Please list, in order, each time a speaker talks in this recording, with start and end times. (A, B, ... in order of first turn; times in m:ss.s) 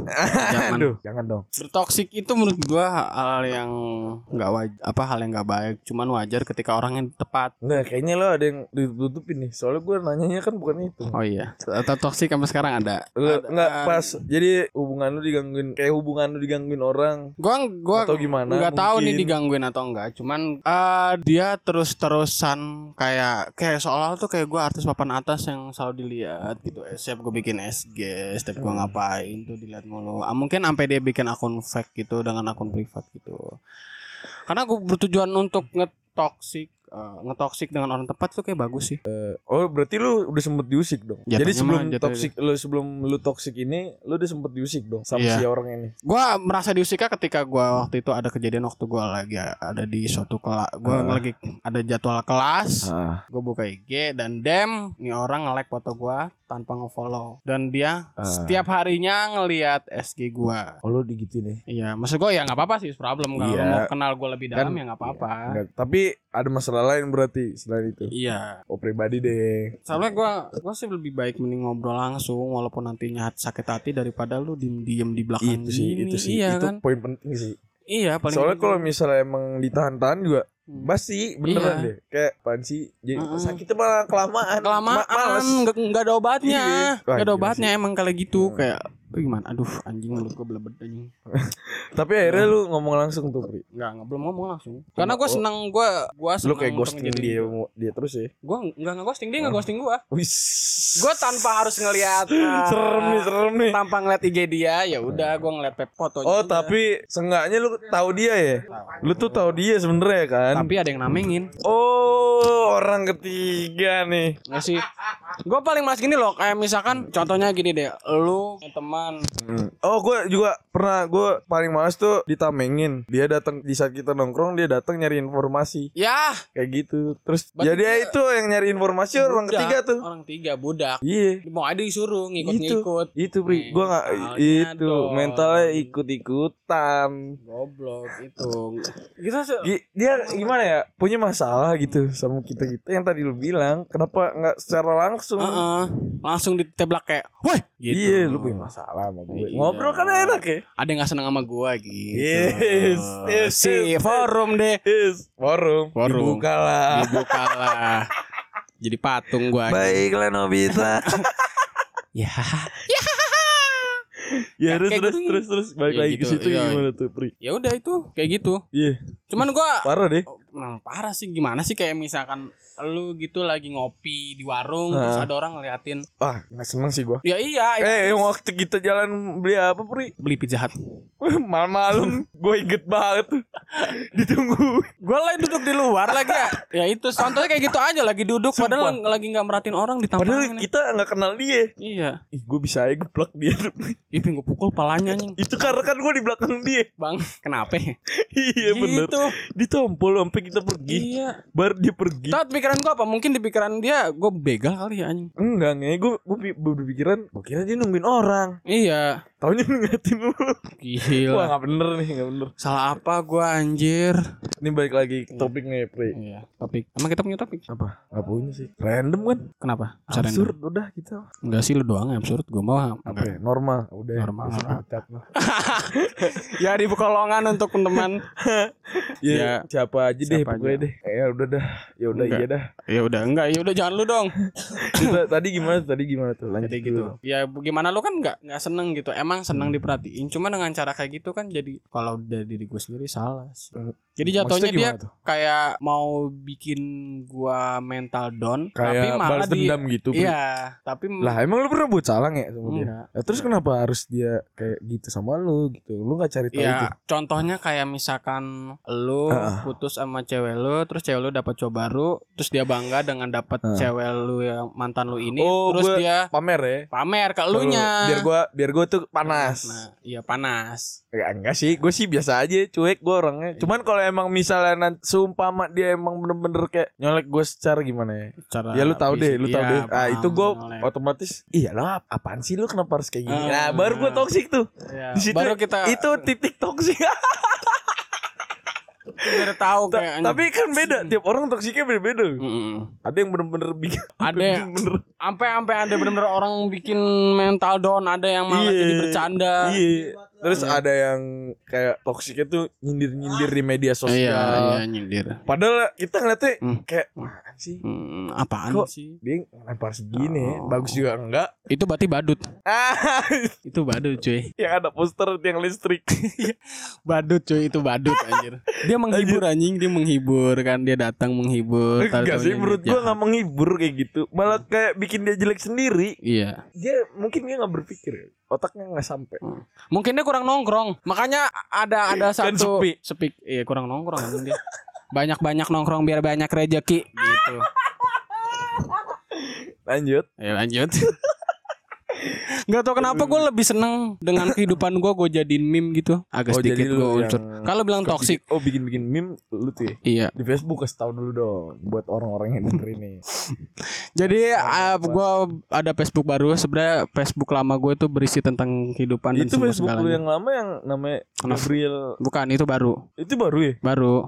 0:00.2-0:01.4 A
0:00.3-0:00.9 B
0:01.6-0:07.6 B
0:07.6-0:11.2 A
0:11.1-0:14.1 B
0:13.2-0:17.2 A
0:17.4-0:33.5 B
0:17.9-0:19.4 A
0:28.6-0:29.0 A
0:34.5-0:39.0 B
0:39.1-0:45.9 A
0:41.3-0:42.3 B
0:45.1-0:45.4 B
0:46.0-1:00.7 B
0:50.8-0:51.2 A
0:52.8-0:53.2 A
0:58.2-0:58.6 A
1:00.8-1:01.6 A
1:01.7-1:05.5 B
1:03.4-1:03.9 A
1:04.6-1:08.1 A
1:08.1-1:08.6 B
1:08.7-1:09.8 A
1:09.9-1:16.8 B
1:15.4-1:17.6 A
1:17.9-1:18.9 B
1:18.3-1:25.6 A
1:21.4-1:21.9 B
1:23.2-1:23.6 B
1:24.6-1:31.1 B
1:26.4-1:27.7 A
1:28.4-1:28.7 A
1:31.3-1:33.6 A
1:32.2-1:32.5 B
1:33.7-1:37.5 B
1:35.0-1:35.4 A
1:36.4-1:38.3 A
1:38.4-1:40.0 B
1:39.4-1:41.5 A
1:41.0-1:46.7 B
1:42.0-1:43.8 A
1:46.2-1:50.7 A
1:48.7-1:49.6 B
1:50.5-1:51.5 B
1:51.6-1:54.4 A
1:54.5-1:59.2 B
1:59.4-2:05.9 A
2:06.0-2:06.4 B
2:06.6-2:10.0 A
2:07.6-2:08.1 B
2:09.2-2:15.9 B
2:11.0-2:11.4 A
2:12.4-2:17.2 A
2:17.4-2:19.7 B
2:19.6-2:25.6 A
2:20.2-2:20.6 B
2:25.4-2:28.7 B
2:27.9-2:30.6 A
2:29.3-2:34.8 B
2:32.2-2:34.3 A
2:34.8-2:37.7 A
2:36.0-2:38.1 B
2:38.8-2:40.1 B
2:39.5-2:41.6 A
2:40.7-2:41.2 B
2:42.2-2:43.9 B
2:44.4-2:47.3 A
2:44.7-2:46.8 B
2:47.4-2:48.6 B
2:48.7-2:49.0 A
2:49.3-2:56.1 B
2:49.8-2:50.2 A
2:54.9-2:55.3 A
2:56.2-2:57.2 A
2:57.2-2:58.3 B
2:57.8-3:00.1 A
3:00.2-3:00.8 B
3:01.2-3:04.9 A
3:05.0-3:10.7 B
3:06.1-3:06.6 A
3:07.2-3:07.5 A
3:08.6-3:09.0 A
3:10.2-3:11.7 A
3:11.8-3:12.2 B
3:12.3-3:14.0 A
3:14.1-3:15.8 B
3:15.2-3:16.9 A
3:17.0-3:18.0 B
3:18.2-3:22.4 A
3:18.6-3:19.3 B
3:20.9-3:21.4 B
3:22.3-3:25.3 B
3:25.4-3:28.6 A
3:28.7-3:29.1 B
3:29.4-3:30.6 A
3:30.8-3:31.5 B
3:31.1-3:32.5 A
3:32.6-3:34.2 B
3:34.6-3:36.2 A
3:36.1-3:37.6 B
3:37.7-3:39.4 A
3:39.6-3:40.5 B
3:40.1-3:41.2 A
3:41.5-3:43.4 B
3:43.1-3:45.2 A
3:44.2-3:44.8 B
3:45.4-3:48.2 B
3:45.9-3:46.4 A
3:47.9-3:52.6 A
3:49.3-3:49.6 B
3:50.3-3:50.9 B
3:52.1-3:54.4 B
3:54.8-3:57.1 A
3:56.6-4:11.3 B
4:03.8-4:05.1 A
4:08.8-4:10.4 A
4:11.2-4:16.9 A
4:12.7-4:13.5 B
4:16.5-4:26.2 B
4:19.3-4:19.7 A
4:25.4-4:26.9 A
4:26.9-4:28.2 B
4:27.5-4:29.8 A
4:29.2-4:31.0 B
4:31.1-4:48.0 A
4:38.5-4:40.9 B
4:43.3-4:44.3 B
4:44.9-4:46.3 B
4:49.2-4:51.2 B
4:49.2-4:52.4 A
4:52.4-4:52.9 B
4:53.0-4:55.0 A
4:54.2-4:54.7 B
4:55.2-4:59.8 B
4:55.9-4:56.2 A
4:58.5-5:04.8 A
5:00.5-5:00.8 B
5:04.1-5:05.4 B
5:05.5-5:07.8 A
5:06.6-5:07.3 B
5:07.8-5:09.2 B
5:08.7-5:11.5 A
5:10.2-5:11.0 B
5:11.7-5:12.4 B
5:12.7-5:13.6 A
5:13.6-5:14.5 B
5:14.6-5:16.1 A
5:16.3-5:23.2 B
5:18.1-5:18.4 A
5:19.0-5:19.4 A
5:22.0-5:26.1 A
5:26.2-5:26.6 B
5:26.8-5:29.4 A
5:29.4-5:34.6 B
5:32.1-5:33.0 A
5:34.2-5:34.5 A
5:35.1-5:37.6 B
5:37.5-5:40.3 A
5:40.4-5:41.1 B
5:41.0-5:41.3 A
5:42.7-5:48.4 B
5:43.0-5:43.5 A
5:44.4-5:44.8 A
5:46.5-5:53.2 A
5:50.0-5:50.3 B
5:54.2-6:00.2 B
5:54.5-5:55.2 A
5:59.4-6:02.0 A
6:01.4-6:01.7 B
6:02.2-6:03.0 B
6:03.2-6:03.8 A
6:03.8-6:04.2 B